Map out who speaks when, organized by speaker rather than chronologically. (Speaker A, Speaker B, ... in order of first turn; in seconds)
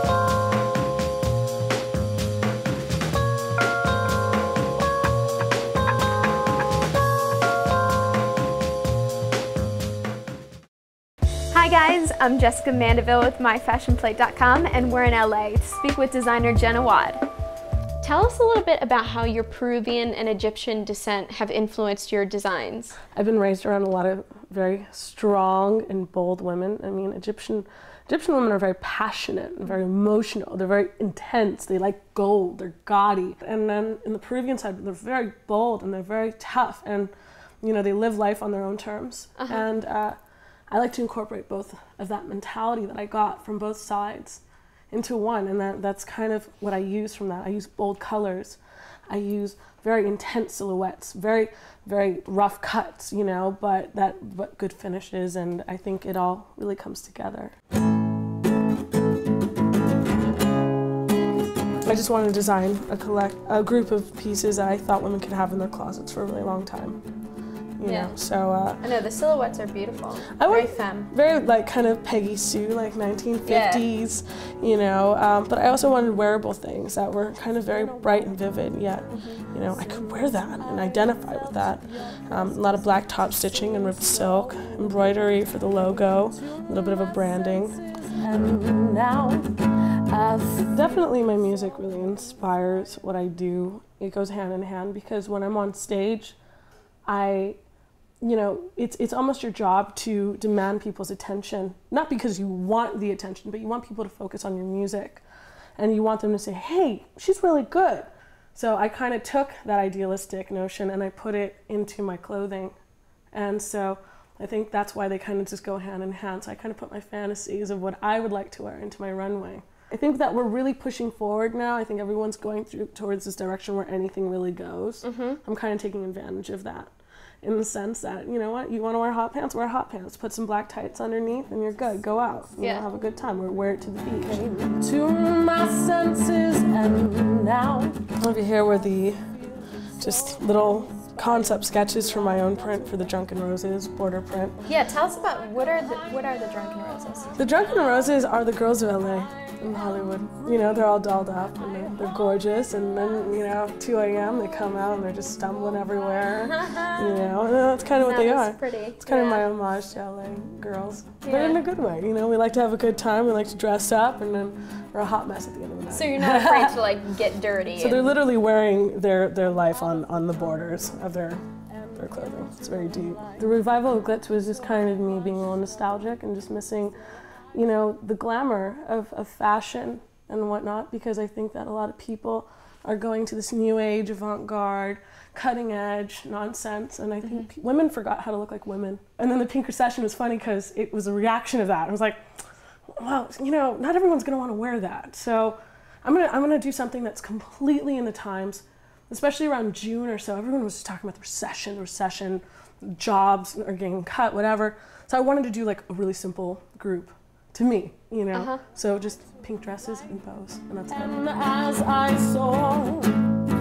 Speaker A: 11.5-17.3, 18.0-23.0, 39.4-39.7, 67.8-68.2, 68.8-71.1, 73.5-73.9, 79.1-79.4, 125.0-125.4, 132.6-132.9, 144.6-147.3, 156.6-157.1, 158.0-159.5, 161.2-161.6, 165.9-168.2, 208.3-208.6
Speaker B: 23.1-40.2, 40.7-57.5, 61.9-67.0, 67.8-68.8, 70.3-89.5, 90.1-96.4, 97.1-97.6, 98.2-105.2, 105.8-112.8, 113.3-126.9, 127.4-139.3, 140.0-144.6, 147.4-166.8, 167.8-177.0, 177.5-192.2, 192.9-213.3